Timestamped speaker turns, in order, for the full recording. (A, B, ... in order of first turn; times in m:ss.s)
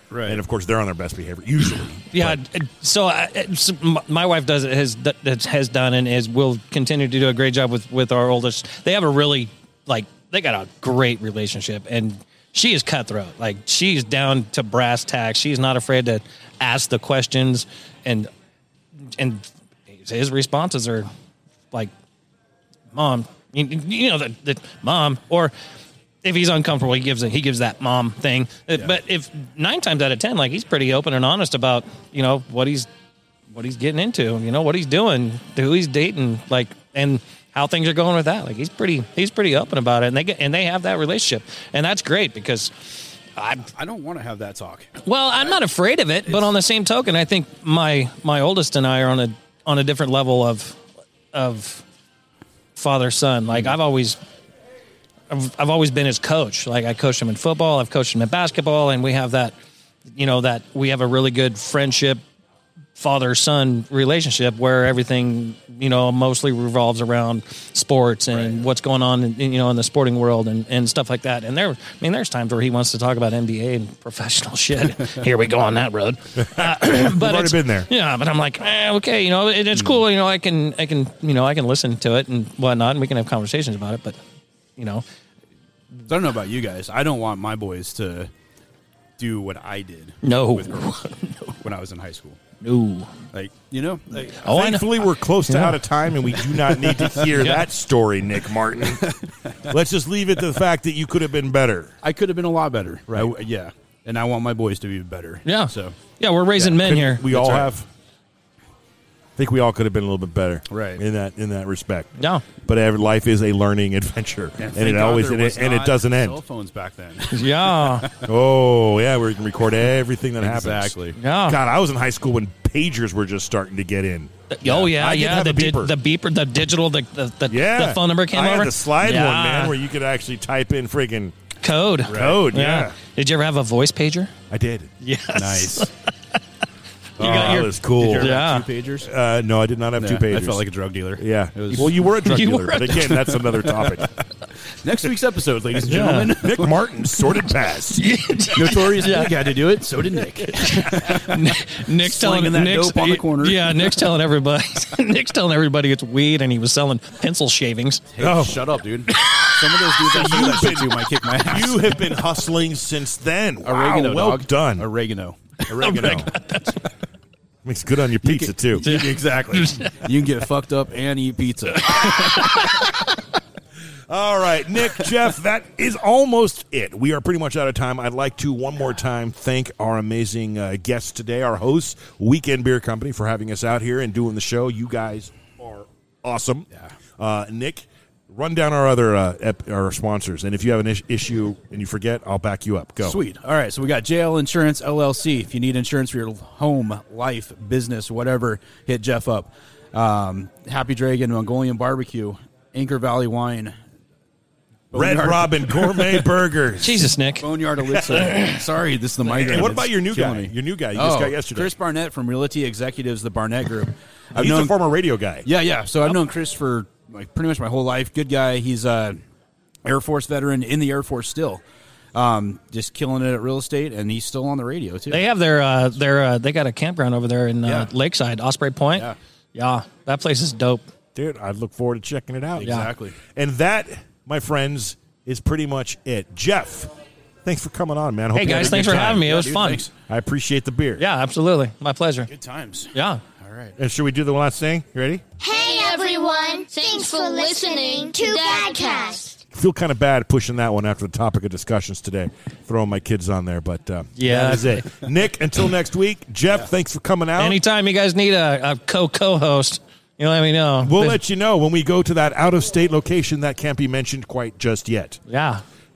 0:00.1-0:00.4 A
0:00.2-0:02.4 B
0:02.1-0:18.3 C
0:19.2-0:21.1 C
0:22.9-0:25.5 C
0:26.2-0:32.9 C
0:33.5-0:43.7 C
0:43.7-0:45.0 A
0:45.0-0:50.8 C
0:51.3-0:51.8 C
0:52.8-0:54.2 C
0:55.3-0:59.5 C
1:00.1-1:02.2 C
1:03.0-1:24.2 C
1:16.4-1:17.9 B
1:24.8-1:25.0 C
1:26.1-1:28.3 A
1:29.2-1:30.9 A
1:30.2-1:31.6 C
1:31.6-1:32.4 A
1:32.6-1:33.1 C
1:33.3-1:34.4 A
1:34.4-1:35.8 C
1:34.4-1:39.0 B
1:37.3-1:37.6 C
1:38.9-1:39.6 A
1:39.7-1:42.0 B
1:42.0-1:46.0 A
1:45.4-1:47.3 C
1:46.6-1:47.9 B
1:47.3-1:47.7 A
1:49.4-1:56.4 B
1:50.7-1:51.0 A
1:52.2-1:52.4 C
1:54.6-1:58.3 A
1:57.3-1:58.1 C
1:58.2-2:05.9 B
2:00.4-2:01.2 A
2:01.2-2:01.6 C
2:04.5-2:09.7 C
2:07.5-2:11.3 B
2:11.6-2:14.3 C
2:12.1-2:12.4 A
2:12.1-2:13.0 B
2:14.5-2:14.9 B
2:15.0-2:15.9 C
2:15.3-2:15.9 A
2:17.2-2:18.4 B
2:17.2-2:18.6 C
2:17.2-2:19.1 A
2:19.0-2:20.6 B
2:20.0-2:22.0 A
2:21.2-2:24.1 B
2:22.2-2:23.6 C
2:24.7-2:26.8 A
2:25.8-2:26.3 C
2:25.9-2:28.1 B
2:28.0-2:29.5 C
2:28.5-2:34.1 A
2:30.5-2:38.1 C
2:38.1-2:42.0 A
2:38.2-2:38.6 B
2:39.1-2:39.9 C
2:40.0-2:44.9 B
2:43.6-2:46.3 A
2:45.7-2:46.3 B
2:45.8-2:46.8 C
2:47.6-2:48.8 B
2:48.2-2:52.7 A
2:48.8-2:50.0 C
2:51.8-2:53.1 C
2:54.1-3:06.7 B
3:07.2-3:13.2 B
3:13.0-3:23.7 A
3:24.9-3:26.3 A
3:24.9-3:27.0 B
3:26.8-3:28.6 C
3:27.4-3:34.8 A
3:29.3-3:31.7 B
3:34.3-3:35.5 B
3:35.4-3:39.2 A
3:39.8-3:41.6 A
3:42.1-3:45.2 A
3:45.1-3:50.8 C
3:51.1-3:52.8 B
3:52.6-3:53.2 A
3:52.6-3:52.9 C
3:53.3-3:56.9 B
3:57.4-3:59.3 B
3:58.3-3:59.9 C
3:58.5-3:59.9 A
4:00.1-4:01.0 B
4:01.0-4:02.3 C
4:02.3-4:03.7 A
4:02.9-4:03.2 C
4:03.8-4:05.2 B
4:05.4-4:09.4 D
4:09.5-4:17.6 B
4:14.2-4:14.8 C
4:17.4-4:21.2 C
4:20.8-4:25.2 B
4:25.3-4:25.6 C